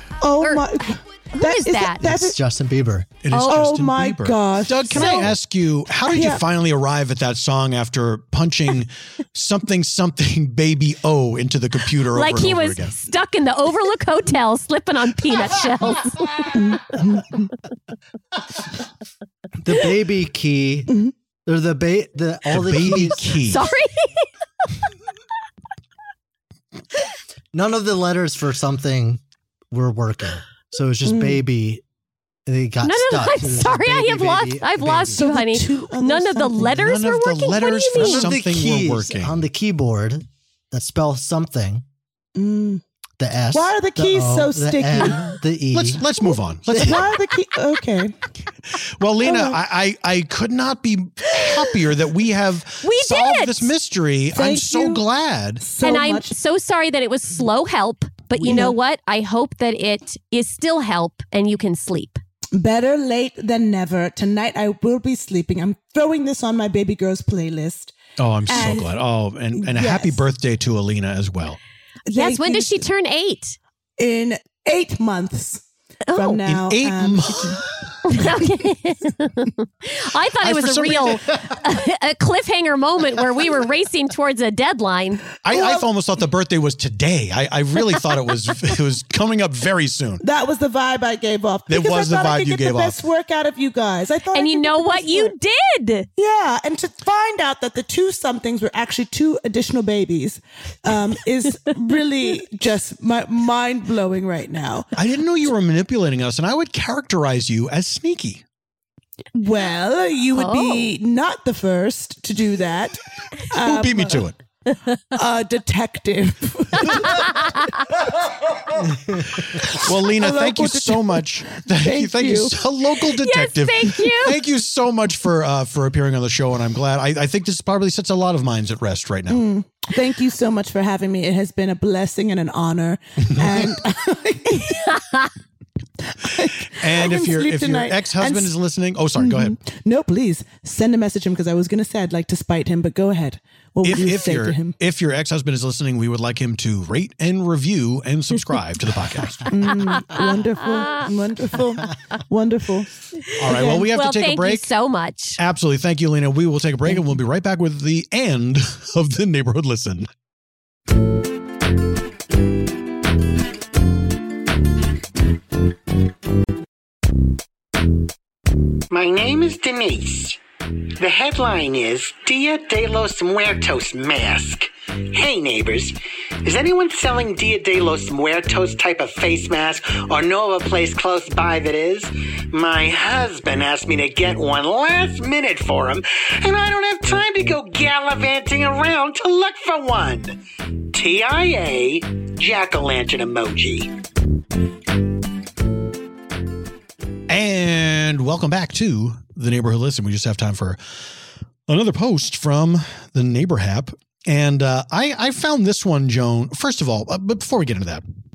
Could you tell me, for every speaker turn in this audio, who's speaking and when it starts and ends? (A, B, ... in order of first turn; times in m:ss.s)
0:00.2-0:02.4 A
0:00.4-0:02.0 B
0:02.0-0:03.1 C
0:03.2-0:13.0 D
0:03.3-0:03.6 B
0:03.4-0:05.3 A
0:04.9-0:05.3 B
0:06.0-0:06.4 A
0:12.1-0:16.9 B
0:16.5-0:17.5 A
0:19.6-0:20.9 C
0:21.4-0:23.2 C
0:22.5-0:23.7 D
0:23.4-0:24.3 B
0:27.5-0:29.2 C
0:29.7-0:31.8 C
0:31.0-0:31.4 A
0:32.4-0:35.2 C
0:32.8-0:38.3 B
0:35.1-0:36.9 A
0:36.6-0:39.4 D
0:37.9-0:41.8 C
0:42.4-0:42.8 A
0:43.2-0:46.0 C
0:43.5-0:45.4 A
0:45.7-0:47.2 D
0:46.7-0:47.0 C
0:46.8-0:48.2 A
0:49.0-0:55.6 D
0:49.2-0:49.6 A
0:52.8-0:53.7 B
0:54.3-0:55.0 A
0:55.6-0:56.3 A
0:55.8-1:02.2 B
0:58.4-0:58.8 A
1:02.5-1:07.9 A
1:08.2-1:11.6 D
1:08.5-1:08.9 A
1:08.5-1:08.8 B
1:09.6-1:10.2 A
1:12.1-1:12.8 A
1:12.1-1:13.6 B
1:14.0-1:17.6 A
1:16.1-1:16.4 B
1:16.4-1:17.8 D
1:18.0-1:25.4 B
1:20.4-1:21.4 D
1:25.4-1:30.2 D
1:25.5-1:25.8 A
1:30.2-1:35.3 A
1:31.7-1:33.0 D
1:34.3-1:36.1 B
1:36.2-1:44.9 A
1:45.0-1:48.4 D
1:49.3-1:54.2 A
1:50.3-1:50.9 B
1:53.6-1:54.4 D
1:55.1-1:57.5 A
1:59.7-2:09.4 D
2:00.2-2:02.5 A
2:03.2-2:04.4 B
2:09.3-2:15.0 A
2:13.4-2:13.7 D
2:16.1-2:18.5 A
2:16.7-2:19.6 D
2:19.2-2:24.8 A
2:23.8-2:29.5 D
2:29.5-2:32.9 A
2:33.4-2:34.7 D
2:33.5-2:33.9 A
2:33.5-2:35.4 B
2:35.4-2:40.1 D
2:48.9-2:50.4 E
2:51.0-3:10.4 E
3:10.9-3:13.9 E
3:17.3-3:20.8 D
3:21.7-3:28.0 D